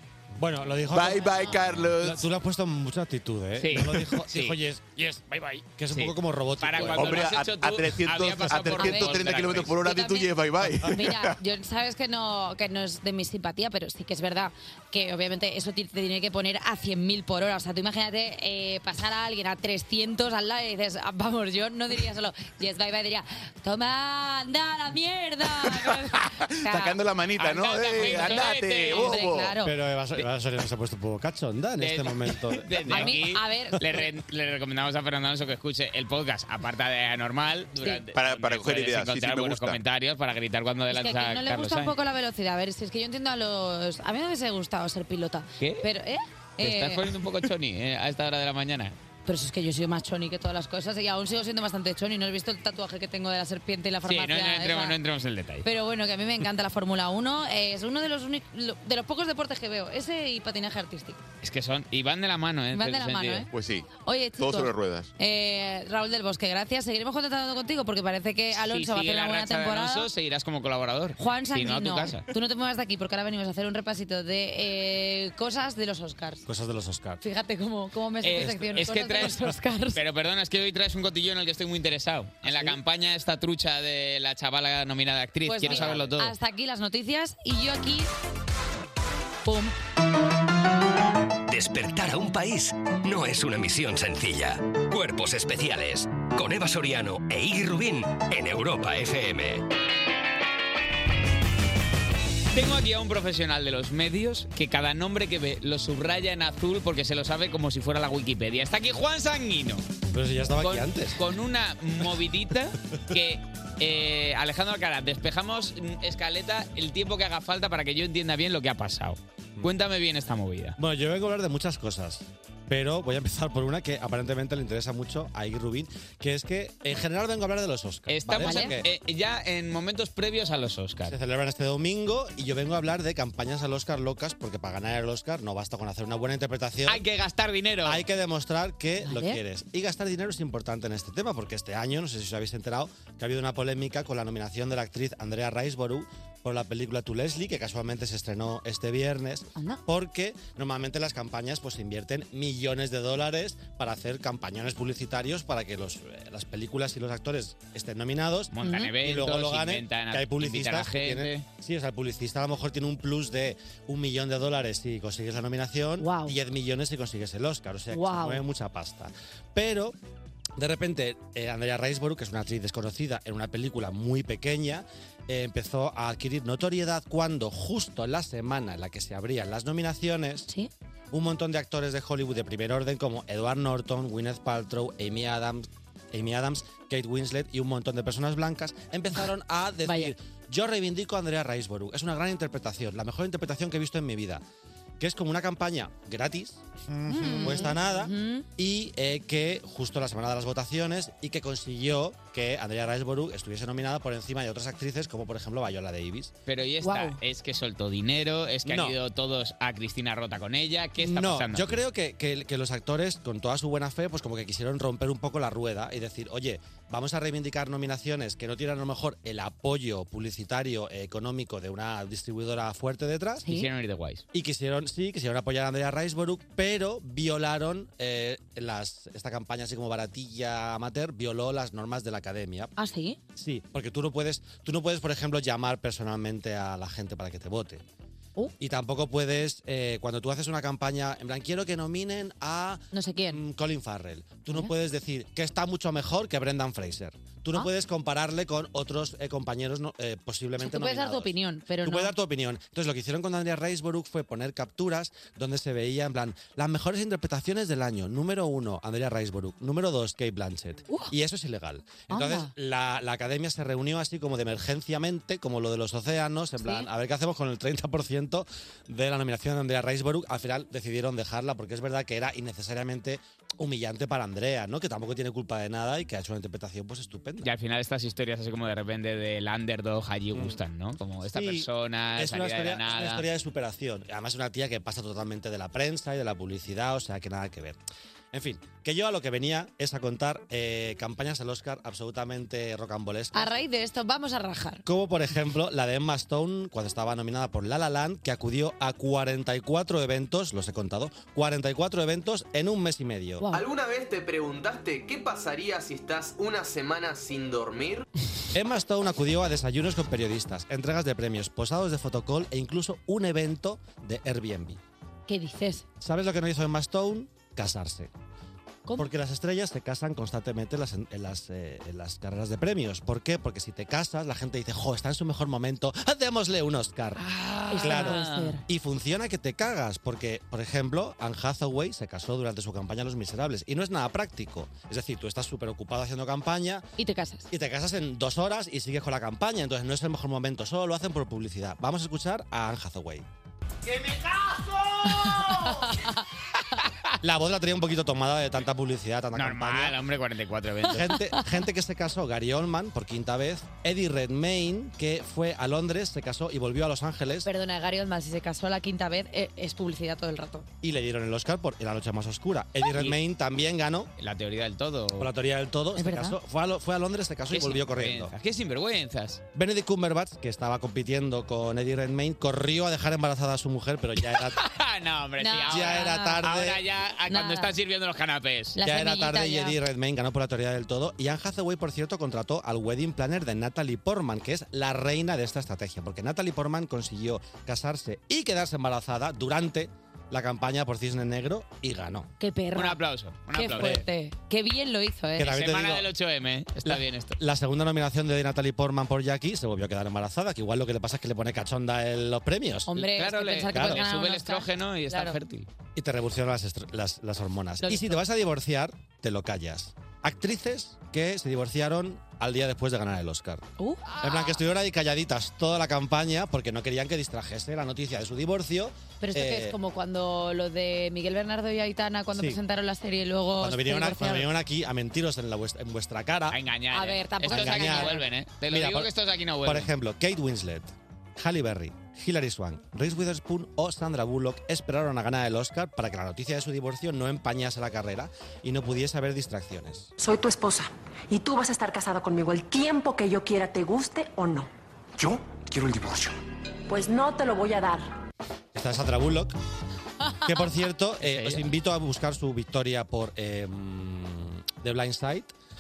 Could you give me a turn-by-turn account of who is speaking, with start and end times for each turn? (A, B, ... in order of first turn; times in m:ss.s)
0:00.4-0:07.3 A
0:00.9-0:02.2 B
0:03.6-0:04.6 C
0:05.9-0:09.8 C
0:06.8-0:11.3 B
0:08.7-0:10.3 D
0:10.8-0:27.0 D
0:25.7-0:29.6 B
0:27.4-0:29.3 C
0:28.0-0:29.7 D
0:29.6-0:33.2 A
0:31.8-0:42.0 C
0:32.9-0:34.0 D
0:38.1-0:39.8 B
0:40.9-0:47.1 D
0:45.6-0:45.8 C
0:46.6-0:49.0 C
0:49.3-0:55.0 D
0:54.0-0:55.7 C
0:55.6-1:01.2 D
1:01.4-1:03.5 C
1:02.7-1:03.5 D
1:03.5-1:05.1 B
1:04.0-1:10.1 D
1:08.5-1:12.2 C
1:11.2-1:16.5 D
1:16.5-1:17.2 A
1:17.2-1:20.0 D
1:18.2-1:26.3 C
1:18.4-1:18.8 A
1:22.5-1:22.8 D
1:25.5-1:28.1 D
1:29.4-1:29.8 D
1:31.5-1:39.6 E
1:42.5-1:49.9 C
1:50.1-1:51.2 A
1:50.5-2:00.8 C
2:00.8-2:08.9 A
2:08.1-2:11.2 C
2:08.4-2:08.8 D
2:11.1-2:17.0 A
2:16.9-2:18.1 C
2:17.8-2:50.0 A
2:19.0-2:19.4 D
2:29.6-2:29.8 D
2:38.5-2:41.5 C
2:38.6-2:38.9 D
2:46.0-2:46.4 D
2:47.9-2:48.4 D
2:50.6-3:00.5 A
3:01.1-3:14.4 A
3:09.8-3:10.1 D
3:15.0-3:26.3 A
3:17.1-3:18.5 D
3:26.5-3:31.8 C
3:26.8-3:27.2 D
3:28.6-3:29.0 A
3:31.0-3:43.5 A
3:43.5-3:44.2 C
3:44.3-3:52.7 A
3:52.8-3:53.2 D
3:53.4-3:57.8 A
3:58.6-4:11.3 A
4:02.9-4:03.4 D
4:10.6-4:12.1 D
4:11.8-4:37.5 A
4:22.1-4:22.5 D
4:26.6-4:26.9 D
4:37.4-4:43.3 C
4:40.3-4:40.6 A
4:41.3-4:47.8 A
4:48.3-4:53.5 A
4:53.3-4:54.8 D
4:54.8-5:03.5 A
5:03.4-5:03.6 D
5:03.5-5:08.1 F
5:08.5-5:14.8 A
5:15.3-5:15.8 D
5:16.0-5:18.1 A
5:19.0-5:27.2 A
5:27.3-5:28.6 C
5:27.7-5:28.6 D
5:27.8-5:36.8 A
5:37.0-5:37.5 D
5:37.5-5:43.2 A
5:45.0-5:46.2 D
5:47.2-5:50.0 A
5:49.3-5:51.2 C
5:50.9-5:57.5 A
5:50.9-5:51.5 D
5:57.4-6:00.6 D
6:00.8-6:04.1 A
6:04.2-6:05.3 C
6:05.2-6:08.3 A
6:06.0-6:06.4 D
6:07.5-6:09.4 C
6:09.6-6:14.6 A
6:14.2-6:18.8 C
6:15.4-6:16.5 D
6:15.7-6:16.8 A
6:17.3-6:17.7 D
6:18.8-6:19.8 D
6:18.8-6:32.3 A
6:32.4-6:33.0 D
6:32.7-6:34.0 C
6:33.5-6:35.6 D
6:33.7-6:34.0 A
6:35.4-6:36.1 A
6:35.4-6:37.4 C
6:36.8-6:42.9 A
6:42.9-6:45.4 D
6:42.9-6:45.7 C
6:43.7-6:44.0 A
6:46.0-6:53.6 A
6:47.8-6:48.2 D
6:53.8-6:54.6 D
6:54.2-6:59.8 A
6:59.2-7:04.5 D
7:02.3-7:02.6 A
7:03.6-7:06.6 A
7:06.5-7:09.9 C
7:06.9-7:08.3 D
7:07.5-7:09.1 A
7:09.6-7:20.1 A
7:20.2-7:26.3 G
7:26.9-7:28.0 G
7:28.7-7:29.6 A
7:30.2-7:30.7 D
7:30.4-7:35.5 A
7:31.2-7:31.7 C